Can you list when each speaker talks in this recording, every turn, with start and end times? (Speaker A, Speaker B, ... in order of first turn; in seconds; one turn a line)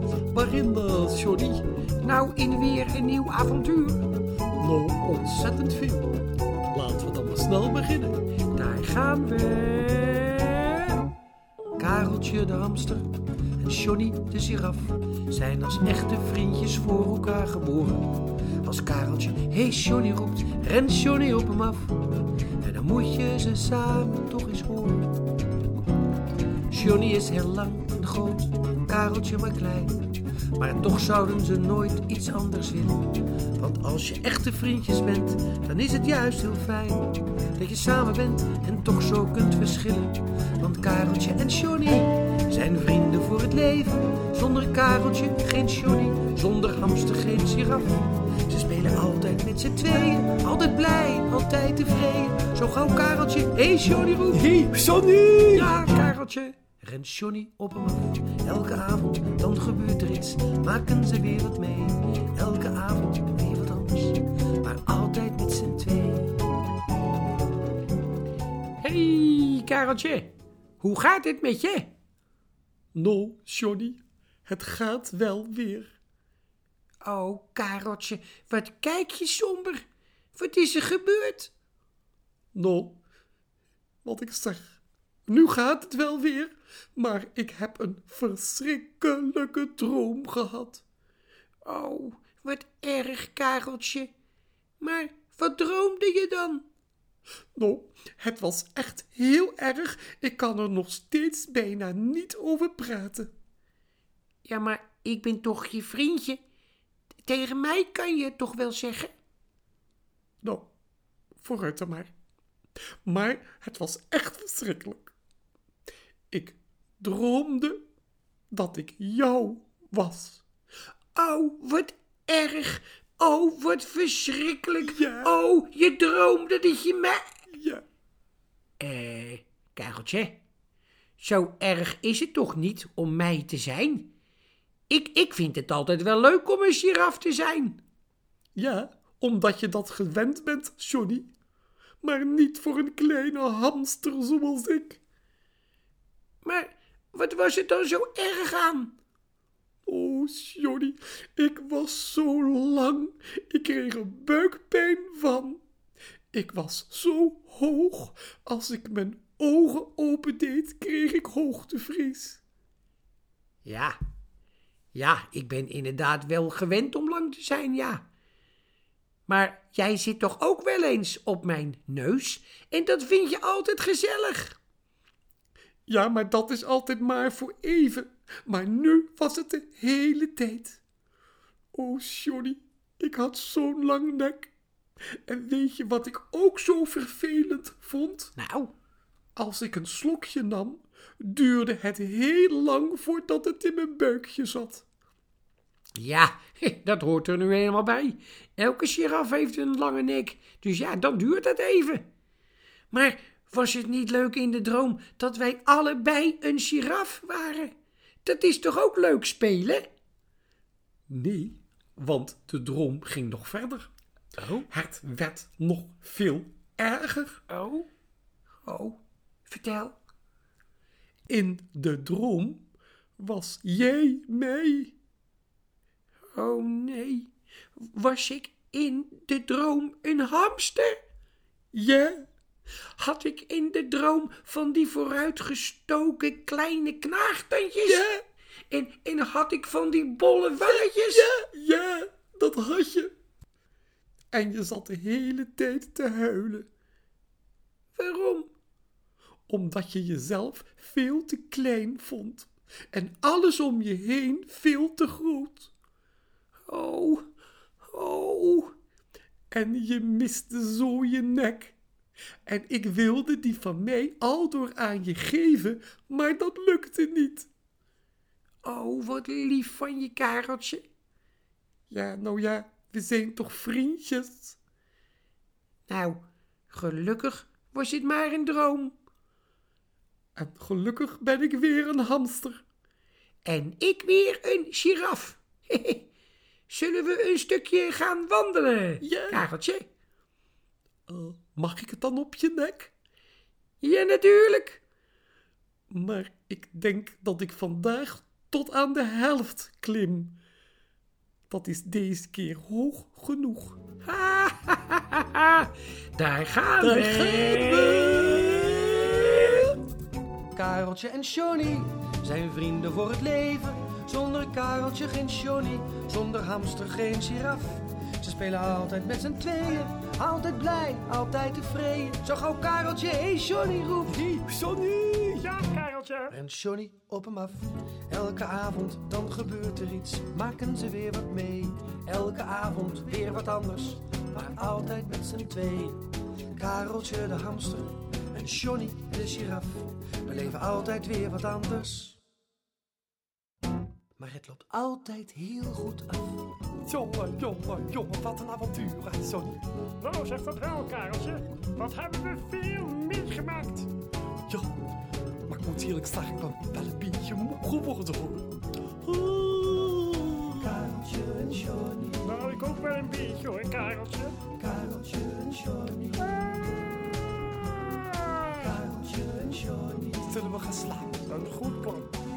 Speaker A: 0.3-1.6
Speaker B: 2.0-4.1
Speaker A: 4.6-6.2
Speaker A: 6.7-8.2
Speaker B: 8.5-11.0
Speaker B: 11.8-25.2
Speaker B: 26.7-30.0
Speaker B: 30.6-54.4
Speaker A: 54.4-55.8
Speaker B: 55.5-66.3
Speaker B: 68.8-71.9
Speaker A: 72.9-75.9
Speaker B: 77.0-79.8
Speaker B: 80.3-81.5
Speaker A: 82.5-83.0
Speaker A: 84.0-90.8
Speaker B: 91.7-94.1
Speaker B: 94.8-96.6
Speaker A: 97.6-103.3
Speaker B: 104.5-106.4
Speaker B: 107.3-109.1
Speaker A: 111.4-112.1
Speaker A: 113.0-115.1
Speaker A: 116.3-117.8
Speaker A: 118.5-120.4
Speaker B: 121.2-127.2
Speaker A: 124.8-125.3
Speaker A: 127.5-127.8
Speaker B: 128.8-130.4
Speaker B: 131.2-134.1
Speaker B: 134.9-137.8
Speaker A: 138.6-141.3
Speaker A: 142.0-145.0
Speaker B: 146.4-148.9
Speaker A: 149.9-155.6
Speaker A: 156.3-162.4
Speaker B: 163.7-164.0
Speaker B: 164.9-168.0
Speaker B: 169.3-174.6
Speaker A: 175.9-180.8
Speaker A: 181.7-184.5
Speaker A: 185.3-188.3
Speaker B: 188.4-188.7
Speaker A: 189.4-194.8
Speaker B: 196.0-202.1
Speaker B: 202.9-207.7
Speaker B: 208.2-209.9
Speaker A: 211.1-213.9
Speaker B: 214.4-214.7
Speaker A: 214.7-217.4
Speaker B: 217.5-217.9
Speaker B: 218.7-220.0
Speaker A: 221.3-222.7
Speaker A: 223.2-224.9
Speaker B: 226.3-231.0
Speaker A: 231.7-232.3
Speaker B: 233.0-238.1
Speaker A: 237.9-238.2
Speaker B: 238.7-241.3
Speaker A: 240.7-243.1
Speaker A: 244.3-246.7
Speaker B: 247.9-248.5
Speaker A: 249.5-255.7
Speaker B: 256.7-257.2
Speaker B: 257.9-258.7
Speaker A: 259.5-261.8
Speaker A: 262.5-267.5
Speaker B: 268.6-270.9
Speaker A: 271.9-274.6
Speaker B: 275.9-278.9
Speaker A: 280.4-282.6
Speaker B: 283.4-286.1
Speaker B: 286.7-289.9
Speaker A: 289.0-289.5
Speaker A: 291.1-292.9
Speaker B: 293.8-294.8
Speaker A: 295.9-300.4
Speaker A: 301.5-303.8
Speaker B: 304.0-309.7
Speaker A: 306.8-309.7
Speaker B: 310.5-324.3
Speaker A: 324.2-325.5
Speaker C: 325.4-326.3
Speaker B: 326.3-342.2
Speaker B: 344.2-346.5
Speaker A: 346.9-349.6
Speaker C: 350.0-353.9
Speaker A: 355.5-360.9
Speaker B: 360.8-362.2
Speaker C: 362.2-364.4
Speaker B: 364.5-366.3
Speaker C: 368.0-368.5
Speaker B: 368.6-370.2
Speaker A: 370.2-371.3
Speaker C: 371.3-372.1